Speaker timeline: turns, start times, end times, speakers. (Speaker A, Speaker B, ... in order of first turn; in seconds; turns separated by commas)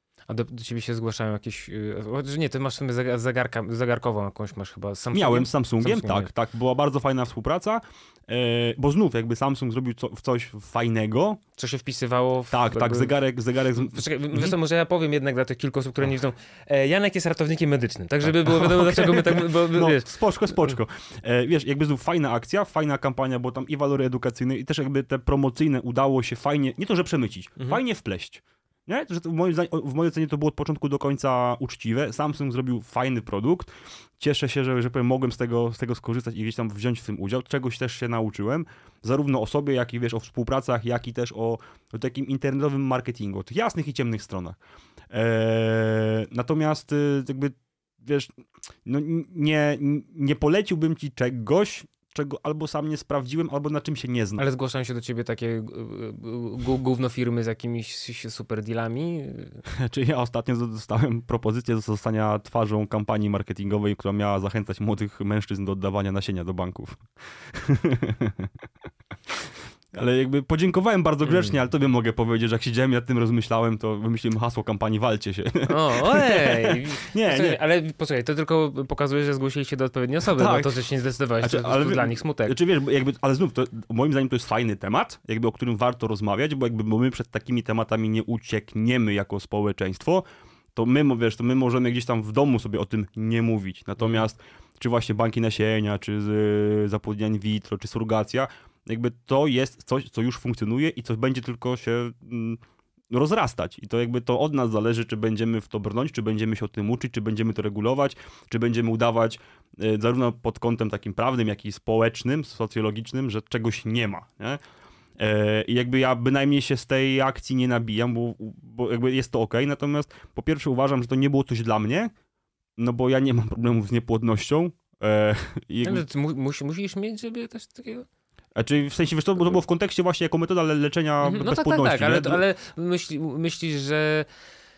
Speaker A: 0.3-6.3, Speaker B: 5.1-11.4, Speaker A: 11.6-13.2, Speaker B: 12.5-14.5, Speaker A: 13.7-20.8, Speaker B: 18.2-44.6, Speaker B: 45.1-48.3, Speaker B: 48.8-54.4, Speaker A: 54.4-59.6, Speaker B: 59.7-68.5, Speaker B: 69.3-77.6, Speaker A: 71.2-71.5, Speaker A: 75.7-82.5, Speaker B: 80.3-80.7, Speaker B: 81.4-114.6, Speaker B: 115.2-122.1, Speaker B: 122.8-126.0, Speaker A: 125.8-128.1, Speaker B: 128.6-132.4, Speaker A: 131.2-134.3